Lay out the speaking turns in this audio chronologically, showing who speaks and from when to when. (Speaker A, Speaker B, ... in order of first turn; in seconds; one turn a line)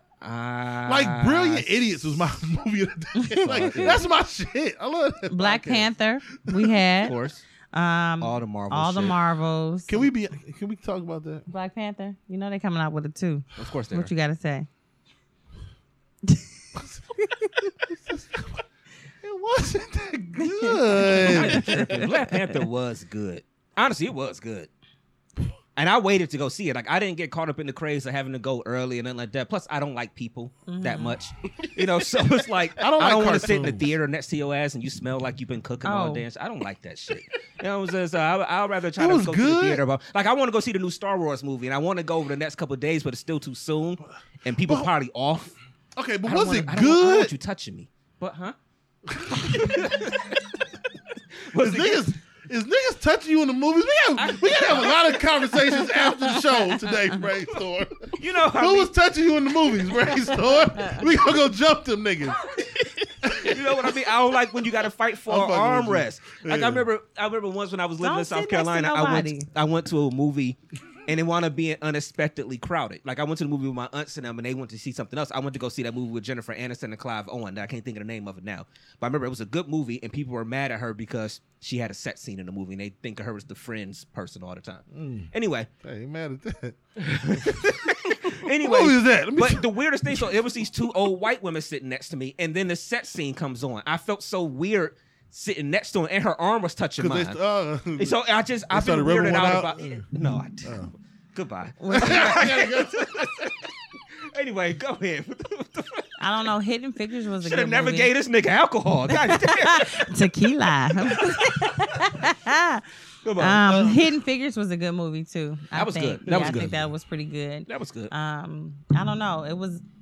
Speaker A: 0.2-2.0
Speaker B: 0.8-5.9
Speaker C: 3.2-4.0
Speaker A: 3.5-4.0
Speaker C: 5.3-7.1
Speaker B: 6.5-6.8
Speaker A: 7.0-7.4
Speaker C: 7.7-10.0
Speaker A: 8.2-9.2
Speaker B: 9.9-11.5
Speaker C: 11.5-14.7
Speaker A: 13.6-14.1
Speaker B: 16.8-17.0
Speaker B: 17.7-18.6
Speaker B: 19.2-21.9
Speaker C: 20.4-22.6
Speaker A: 21.0-24.7
Speaker A: 25.8-45.5
Speaker C: 30.7-31.2
Speaker B: 32.8-33.9
Speaker C: 35.8-36.2
Speaker B: 39.0-39.8
Speaker B: 44.6-44.9
Speaker B: 46.0-47.3
Speaker A: 46.3-48.5
Speaker B: 49.1-50.0
Speaker A: 49.3-50.6
Speaker A: 51.4-52.1
Speaker B: 51.5-62.4
Speaker A: 54.2-55.2
Speaker A: 58.1-58.9
Speaker B: 63.2-63.9
Speaker A: 63.2-85.7
Speaker B: 65.3-66.9
Speaker C: 68.0-69.5
Speaker B: 84.9-85.3
Speaker B: 85.8-86.8
Speaker A: 87.0-97.4
Speaker B: 87.3-90.3
Speaker B: 97.0-98.2
Speaker A: 98.0-100.8
Speaker B: 98.7-100.0
Speaker B: 100.6-100.9
Speaker A: 101.3-103.7
Speaker C: 101.8-102.5
Speaker B: 101.9-103.5
Speaker A: 104.3-106.1
Speaker C: 106.2-108.1
Speaker A: 107.4-110.2
Speaker C: 109.1-112.8
Speaker A: 111.0-111.7
Speaker A: 113.2-113.9
Speaker C: 113.4-119.8
Speaker B: 113.7-114.0
Speaker A: 115.7-116.8
Speaker A: 117.7-118.1